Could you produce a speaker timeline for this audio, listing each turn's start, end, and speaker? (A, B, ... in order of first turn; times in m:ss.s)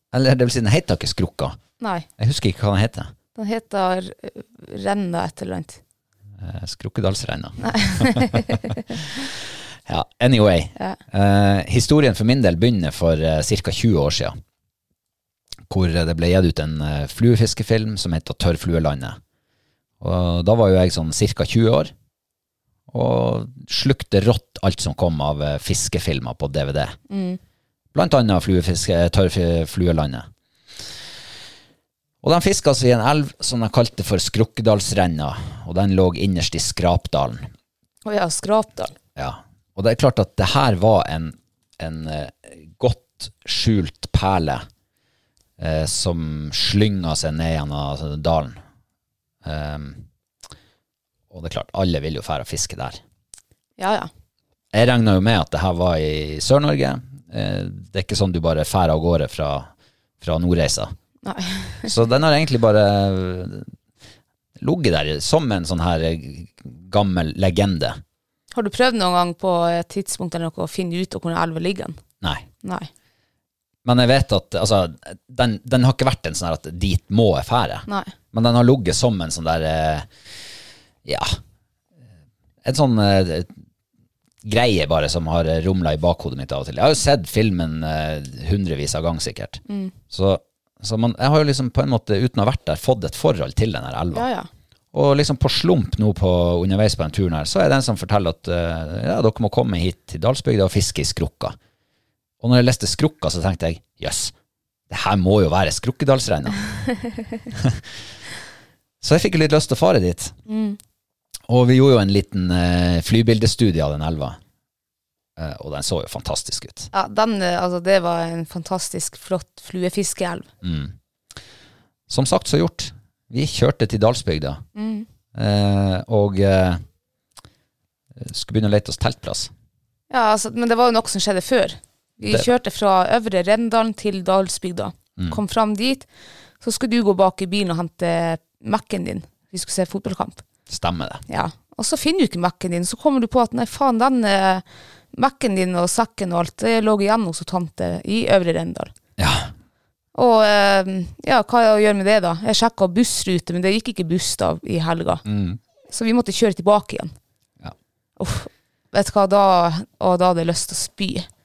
0:00.1-0:01.6 A
0:01.8-0:02.1 B
0:02.2-0:03.1 A
0:03.4-0:05.8 B
0:06.4-0:14.4 A
0:07.6-0:08.6 B
0:15.7-0:19.2 A
0:20.0-0:21.9 A
0:22.9-0:27.0 A
0:27.1-0:27.4 B
0:27.9-0:30.3 A
0:32.2-0:37.5 A
0:38.0-0:38.9 B
0:39.2-0:44.6 A
0:45.6-0:48.6 A
0:49.4-0:50.0 A
0:51.3-0:53.0 A
0:53.8-0:54.1 B
0:54.7-0:59.7 A
1:00.2-1:00.9 A
1:01.2-1:01.9 B
1:01.8-1:03.7 A
1:04.6-1:08.0 A
1:08.5-1:12.0 B
1:12.2-1:12.5 A
1:12.6-1:12.9 B
1:13.8-1:20.1 A
1:17.9-1:18.1 B
1:21.0-1:21.4 A
1:22.6-1:23.5 A
1:24.4-1:34.3 A
1:29.7-1:29.9 B
1:34.1-1:34.5 B
1:34.9-1:41.6 A
1:42.4-1:44.3 A
1:44.9-1:46.6 A
1:47.5-1:47.8 A
1:49.0-1:50.4 A
1:50.5-1:50.8 B
1:51.5-1:54.4 A
1:55.4-1:56.9 A
1:56.9-2:00.5 B
2:00.6-2:00.9 A
2:02.1-2:04.6 A
2:04.8-2:05.1 B
2:05.4-2:06.8 A
2:08.2-2:09.5 A
2:10.1-2:16.1 B
2:16.6-2:20.4 B
2:20.7-2:21.2 A
2:21.3-2:28.9 B
2:29.2-2:29.5 A
2:30.1-2:35.2 B
2:35.2-2:35.6 A
2:35.9-2:37.1 B
2:38.2-2:41.3 B